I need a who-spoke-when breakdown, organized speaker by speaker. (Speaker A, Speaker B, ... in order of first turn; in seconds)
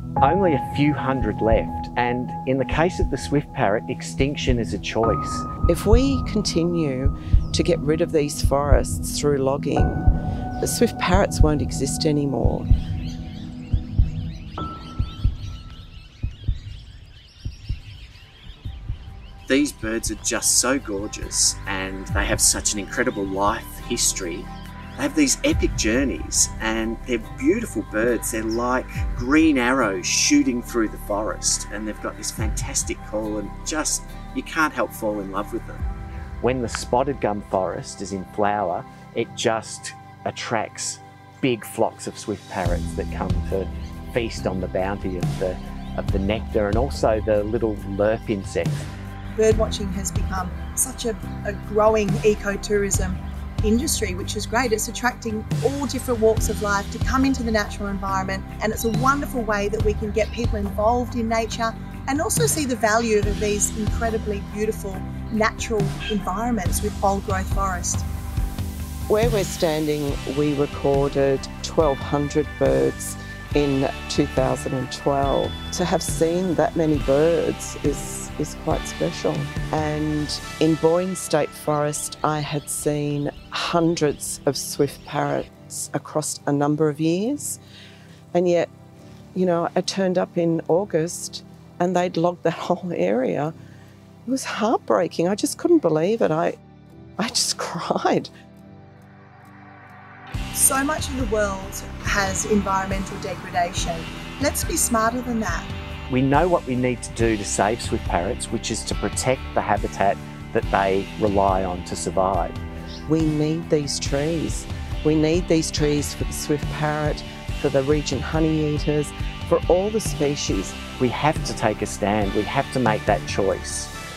Speaker A: 0.2-5.5, 19.5-35.8, 36.4-48.9, 106.1-112.6, 121.0-123.9
Speaker B: 5.7-10.1, 10.6-12.7, 69.1-87.6, 88.3-88.7, 89.3-93.5, 94.3-96.6, 97.2-98.3, 113.1-120.8
Speaker C: 49.4-68.1, 100.5-105.7